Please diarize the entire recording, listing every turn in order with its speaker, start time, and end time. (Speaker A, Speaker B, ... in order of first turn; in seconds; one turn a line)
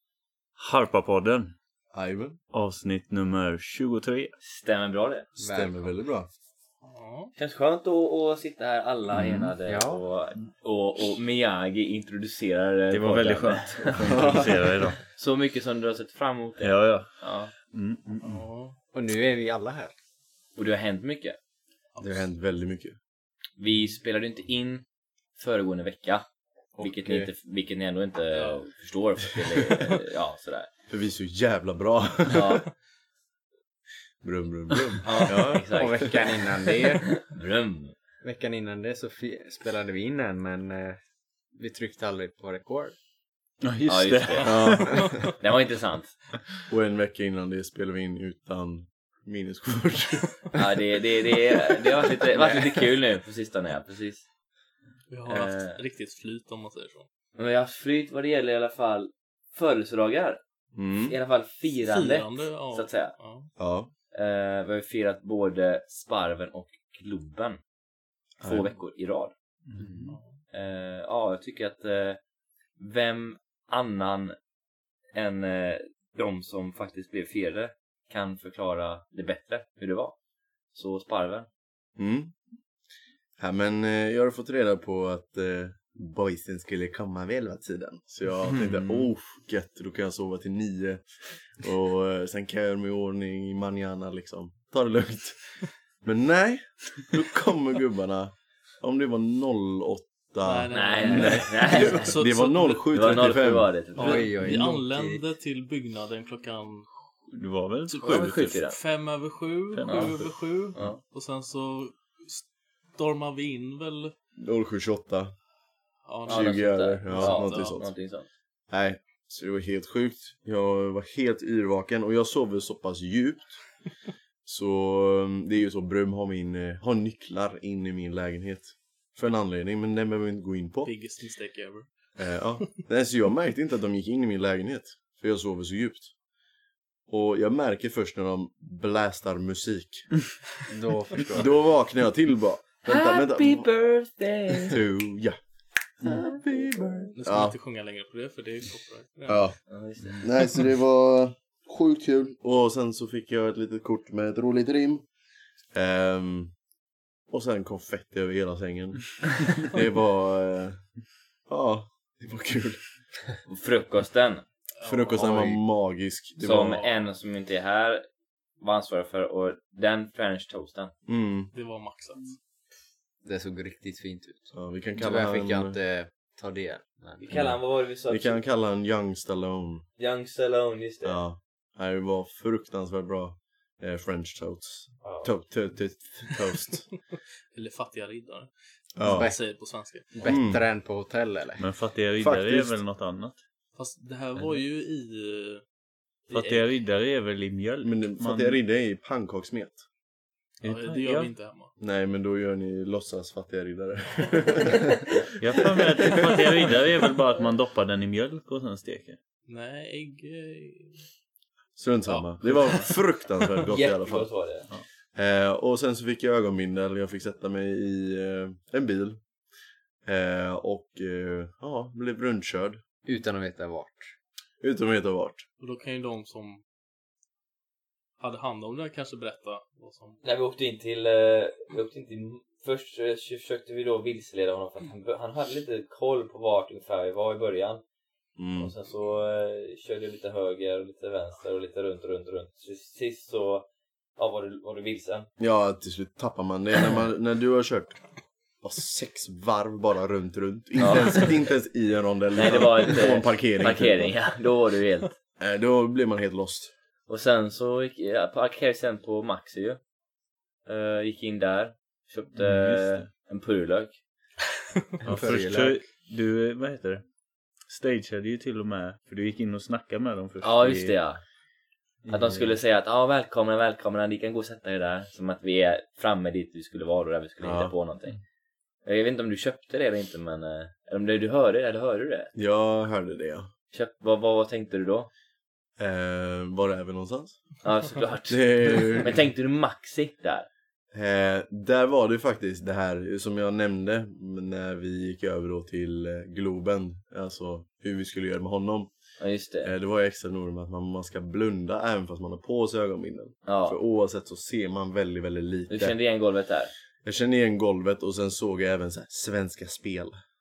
Speaker A: 0.6-1.5
Speaker B: 1.9-2.4
Speaker A: 2.5-4.3
Speaker C: 4.4-5.3
Speaker B: 5.3-6.3
Speaker D: 5.4-5.9
Speaker E: 6.8-7.3
Speaker C: 7.3-14.4
Speaker A: 9.1-9.5
Speaker D: 9.6-10.0
Speaker A: 12.9-15.0
Speaker B: 13.9-14.6
Speaker C: 15.1-17.5
Speaker A: 16.6-18.4
Speaker E: 18.2-18.8
Speaker D: 18.9-19.9
Speaker C: 20.6-21.4
Speaker B: 22.0-23.0
Speaker C: 23.6-24.8
Speaker C: 25.4-26.2
Speaker B: 26.7-27.3
Speaker C: 26.8-30.7
Speaker E: 28.3-28.6
Speaker B: 30.9-32.6
Speaker C: 32.3-32.6
Speaker B: 34.2-35.9
Speaker C: 35.0-36.4
Speaker D: 35.7-37.2
Speaker C: 37.2-37.9
Speaker D: 38.2-41.0
Speaker D: 41.5-43.0
Speaker A: 43.6-45.1
Speaker C: 43.9-46.1
Speaker B: 44.5-45.3
Speaker B: 46.7-50.6
Speaker C: 50.5-54.2
Speaker E: 55.1-57.1
Speaker C: 55.2-55.8
Speaker C: 57.4-60.4
Speaker B: 60.7-61.1
Speaker C: 61.1-63.1
Speaker E: 61.8-63.5
Speaker B: 63.6-63.9
Speaker C: 64.1-67.6
Speaker B: 68.4-68.7
Speaker C: 68.4-69.3
Speaker A: 69.6-70.2
Speaker D: 69.8-70.1
Speaker E: 70.1-70.4
Speaker C: 70.5-72.2
Speaker C: 72.8-74.3
Speaker C: 75.1-80.2
Speaker C: 80.7-81.5
Speaker B: 82.0-82.3
Speaker B: 83.4-103.7
Speaker A: 88.4-89.1
Speaker E: 100.4-103.4
Speaker C: 100.7-102.2
Speaker C: 102.9-104.3
Speaker E: 103.9-106.9
Speaker D: 104.0-105.2
Speaker A: 107.3-108.6
Speaker E: 107.9-114.1
Speaker C: 108.0-108.8
Speaker A: 109.7-110.9
Speaker C: 110.7-111.0
Speaker B: 114.4-115.3
Speaker E: 116.0-117.8
Speaker B: 116.3-117.9
Speaker C: 116.3-118.3
Speaker B: 118.7-123.8
Speaker B: 124.4-130.9
Speaker E: 130.8-131.9
Speaker B: 132.2-136.1
Speaker B: 137.1-140.1
Speaker D: 140.7-141.6
Speaker B: 141.3-143.7
Speaker C: 142.8-144.8
Speaker B: 144.6-145.4
Speaker B: 145.9-147.6
Speaker E: 147.1-149.4
Speaker B: 149.3-149.6
Speaker C: 149.7-150.2
Speaker B: 150.2-155.1
Speaker B: 155.7-156.5
Speaker B: 157.3-160.8
Speaker B: 161.5-162.8
Speaker C: 163.5-164.4
Speaker E: 164.8-165.6
Speaker B: 164.8-166.9
Speaker C: 166.4-168.0
Speaker C: 168.6-170.9
Speaker B: 171.1-171.5
Speaker E: 171.5-172.4
Speaker D: 173.2-177.2
Speaker B: 174.5-175.8
Speaker C: 177.2-178.4
Speaker B: 177.3-179.8
Speaker C: 180.0-181.2
Speaker B: 181.0-186.9
Speaker C: 185.0-185.3
Speaker E: 187.5-190.1
Speaker B: 189.0-189.3
Speaker D: 189.0-189.4
Speaker D: 190.1-191.6
Speaker B: 190.2-190.6
Speaker A: 191.6-193.4
Speaker B: 192.2-192.8
Speaker E: 193.7-195.6
Speaker E: 196.3-196.6
Speaker A: 196.3-198.6
Speaker B: 197.8-199.8
Speaker A: 200.6-201.3
Speaker E: 200.6-201.7
Speaker B: 201.8-206.4
Speaker E: 204.1-204.6
Speaker A: 205.4-209.2
Speaker E: 209.5-211.1
Speaker B: 211.8-214.3
Speaker E: 212.1-213.0
Speaker C: 213.7-214.7
Speaker B: 215.1-219.2
Speaker B: 220.0-222.8
Speaker D: 223.1-224.1
Speaker B: 224.6-225.4
Speaker E: 225.6-226.6
Speaker E: 228.2-230.2
Speaker C: 230.2-237.8
Speaker B: 238.4-238.7
Speaker C: 238.6-245.3
Speaker B: 245.4-248.0
Speaker B: 248.6-254.1
Speaker C: 250.8-251.3
Speaker C: 252.3-255.1
Speaker B: 255.4-256.7
Speaker C: 257.1-259.8
Speaker C: 260.6-264.0
Speaker A: 262.3-263.1
Speaker D: 265.0-265.8
Speaker A: 265.0-267.1
Speaker A: 267.6-271.0
Speaker C: 270.4-271.2
Speaker A: 272.0-272.6
Speaker C: 272.1-278.2
Speaker B: 277.4-277.7
Speaker C: 278.8-282.3
Speaker B: 282.3-283.5
Speaker C: 283.7-285.1
Speaker B: 285.8-287.5
Speaker C: 287.6-290.5
Speaker B: 288.3-289.2
Speaker B: 290.9-298.9
Speaker C: 299.2-299.7
Speaker B: 299.6-306.0
Speaker C: 303.4-303.8
Speaker C: 305.7-306.7
Speaker B: 307.0-310.2